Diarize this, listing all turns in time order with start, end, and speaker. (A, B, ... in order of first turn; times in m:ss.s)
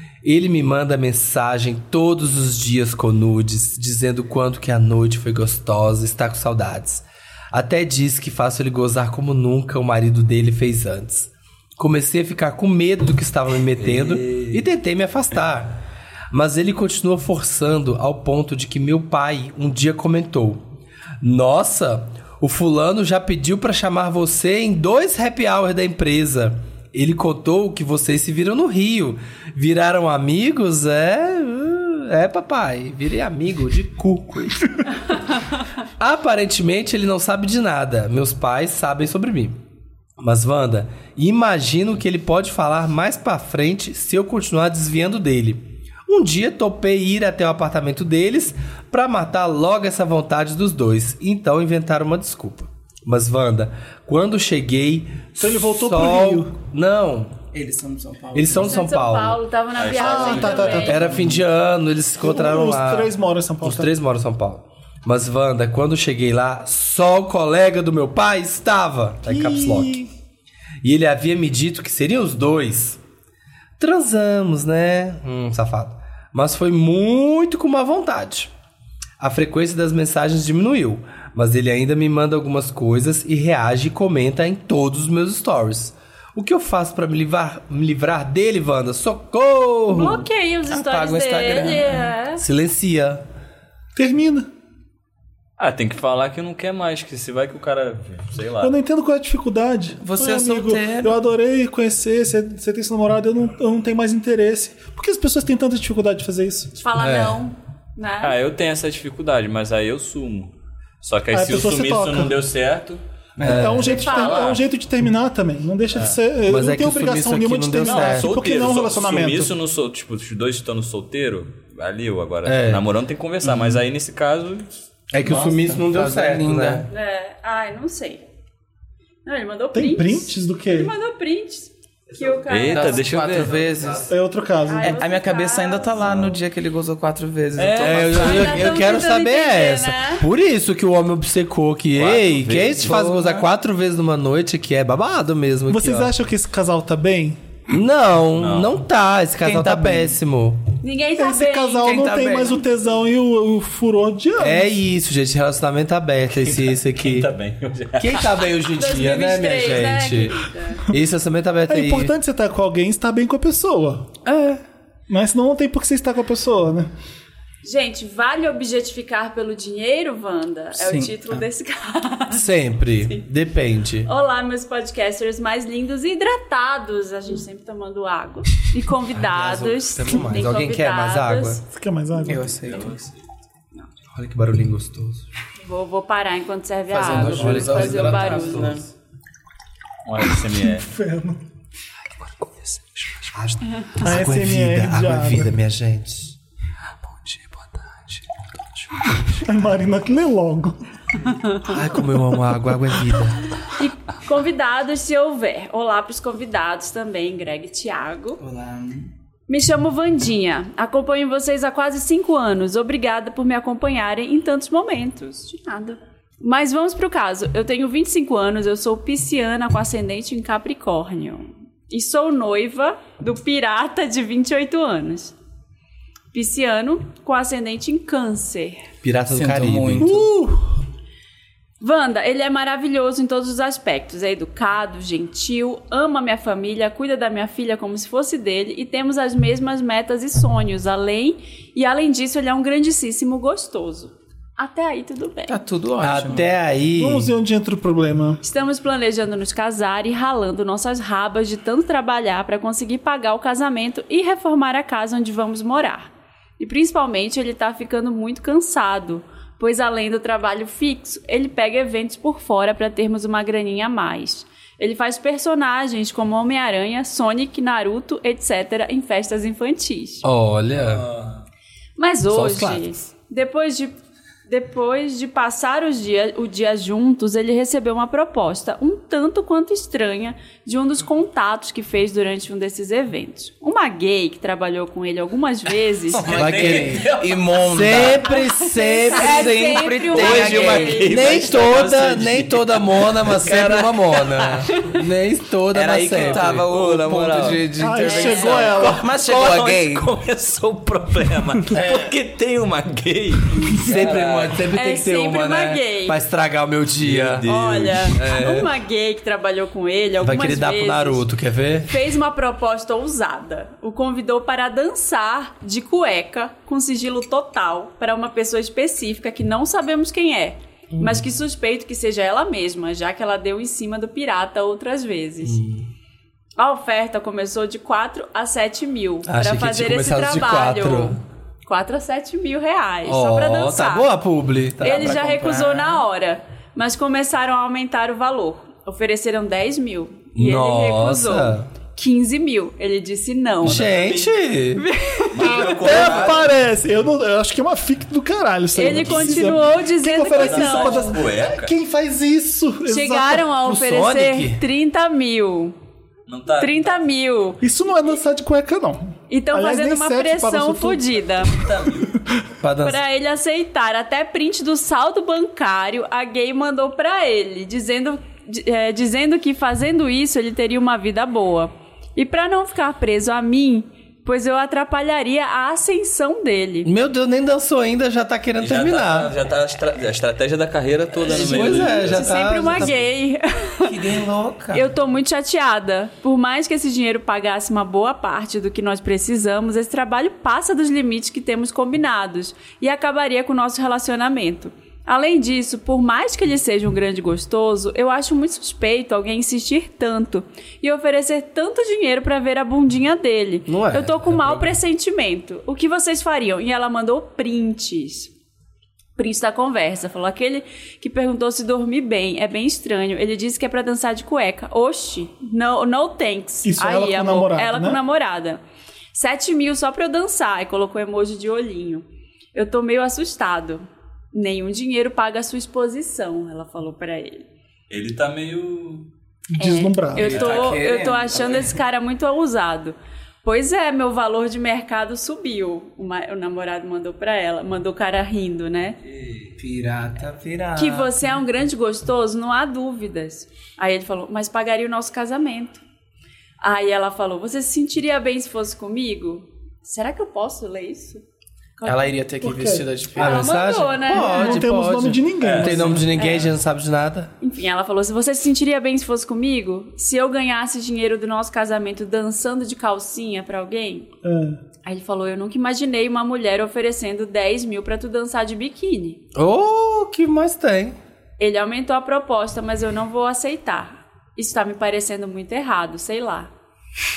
0:00.2-0:15.8 A
0:13.8-0:14.6 B
0:16.3-0:20.6 A
0:21.2-0:35.1 A
0:36.0-0:39.6 A
0:40.2-0:57.4 A
0:55.4-0:56.6 C
0:57.5-0:58.8 D
0:58.3-0:59.4 A
0:58.6-1:01.2 E
0:59.8-1:00.9 B
0:59.9-1:01.1 C
1:00.9-1:03.1 A
1:02.2-1:03.9 C
1:03.6-1:10.0 A
1:09.2-1:10.1 C
1:10.8-1:13.0 A
1:13.8-1:18.5 A
1:19.2-1:30.3 A
1:29.9-1:32.4 E
1:30.7-1:32.1 D
1:32.4-1:33.2 A
1:34.0-1:34.5 C
1:35.6-1:38.7 B
1:38.6-1:46.7 C
1:40.0-1:41.2 D
1:46.8-1:48.4 E
1:47.0-1:47.4 A
1:48.2-1:53.0 B
1:51.3-1:52.4 C
1:53.4-1:53.8 D
1:53.4-1:54.0 A
1:53.4-1:59.6 C
1:53.8-1:54.6 B
1:54.0-1:54.5 E
1:56.5-1:58.3 A
1:57.8-2:04.7 B
2:02.5-2:02.8 A
2:03.5-2:03.8 A
2:05.1-2:06.9 A
2:05.2-2:06.9 D
2:06.9-2:08.2 E
2:09.2-2:13.5 E
2:09.7-2:10.9 C
2:12.2-2:14.1 D
2:12.5-2:14.1 B
2:14.1-2:15.0 C
2:14.6-2:16.1 E
2:14.8-2:18.7 D
2:17.6-2:18.6 B
2:17.8-2:26.1 A
2:18.2-2:20.3 E
2:21.9-2:23.0 B
2:22.8-2:23.5 D
2:25.7-2:27.4 C
2:27.7-2:30.7 A
2:28.4-2:28.8 B
2:29.4-2:30.2 D
2:30.8-2:32.0 E
2:31.2-2:34.8 C
2:31.8-2:32.6 D
2:34.4-2:37.3 A
2:36.4-2:38.4 B
2:38.0-2:42.1 A
2:38.7-2:40.9 E
2:41.7-2:44.2 C
2:44.2-2:44.6 A
2:45.1-2:46.9 C
2:47.6-2:52.5 E
2:50.8-2:51.4 D
2:52.3-2:54.1 A
2:54.1-3:01.6 E
2:59.2-3:01.6 A
3:01.7-3:02.6 C
3:02.2-3:03.0 D
3:02.7-3:03.1 B
3:04.1-3:05.3 A
3:05.6-3:08.8 E
3:06.9-3:08.8 D
3:07.0-3:08.8 A
3:10.1-3:10.9 B
3:10.4-3:11.4 C
3:12.1-3:13.4 B
3:13.4-3:16.4 A
3:14.0-3:15.6 C
3:17.0-3:19.3 B
3:19.4-3:20.8 C
3:21.6-3:23.5 A
3:23.7-3:28.4 E
3:28.4-3:29.1 D
3:29.5-3:45.4 E
3:46.3-3:48.8 E
3:49.0-3:50.6 A
3:49.3-3:50.2 D
3:51.8-4:05.6 E
4:05.5-4:06.5 D
4:06.0-4:07.3 A
4:07.0-4:08.4 C
4:08.4-4:30.2 E
4:30.2-4:31.1 A
4:30.7-4:31.4 B
4:32.0-4:33.9 E
4:32.3-4:32.9 A
4:34.5-4:46.4 E
4:46.1-4:48.3 D
4:46.2-4:48.1 B
4:46.4-4:47.0 A
4:47.7-4:49.8 A
4:48.2-4:51.3 E
4:49.1-4:51.5 D
4:50.1-4:54.5 B
4:51.1-4:56.7 A
4:54.7-4:55.0 E
4:55.7-5:00.1 D
4:56.0-4:57.6 B
4:57.8-4:59.0 C
4:58.0-4:58.9 E
4:58.3-5:04.6 B
5:03.7-5:07.5 A
5:03.7-5:04.5 D
5:04.7-5:06.2 E
5:07.0-5:08.2 B
5:07.4-5:11.3 E
5:08.2-5:08.7 A
5:10.2-5:11.9 A
5:11.9-5:25.6 E
5:25.4-5:25.9 A
5:26.6-5:34.1 E
5:29.3-5:31.2 A
5:33.0-5:35.2 A
5:34.8-5:36.0 D
5:34.8-5:44.0 E
5:40.4-5:41.7 A
5:43.6-5:44.8 A
5:43.6-5:44.4 B
5:44.8-5:46.3 E
5:45.3-5:46.5 B
5:45.4-5:53.5 C
5:48.7-5:51.2 E
5:48.8-5:49.7 B
5:50.3-5:51.7 B
5:52.9-5:55.8 E
5:53.6-5:54.6 A
5:56.3-5:57.0 B
5:56.6-5:57.6 E
5:57.6-6:01.0 C
5:59.3-6:01.6 E
6:01.5-6:02.2 B
6:02.6-6:03.0 A
6:02.8-6:16.9 E
6:16.9-6:19.3 A
6:18.6-6:23.0 B
6:21.2-6:23.0 A
6:21.3-6:22.3 D
6:21.6-6:24.0 E
6:23.8-6:24.9 D
6:24.7-6:48.3 E
6:43.7-6:44.7 A
6:49.2-6:58.6 E
6:56.6-6:58.0 C
6:59.1-7:07.4 E
7:07.9-7:09.1 B
7:09.6-7:10.3 C
7:09.6-7:19.0 E
7:10.2-7:11.8 D
7:10.2-7:10.7 B
7:19.0-7:19.5 B
7:19.6-7:21.1 D
7:20.8-7:25.8 E
7:26.6-7:31.2 E
7:31.8-7:32.1 E
7:31.8-7:33.6 D
7:32.4-7:32.9 C
7:33.2-7:34.7 E
7:33.2-7:37.3 A
7:34.1-7:36.1 C
7:35.4-7:36.0 B
7:36.2-7:36.5 E
7:37.4-7:44.1 E
7:44.2-7:44.6 C
7:44.8-7:49.2 E
7:49.4-7:51.0 A
7:51.4-7:56.5 E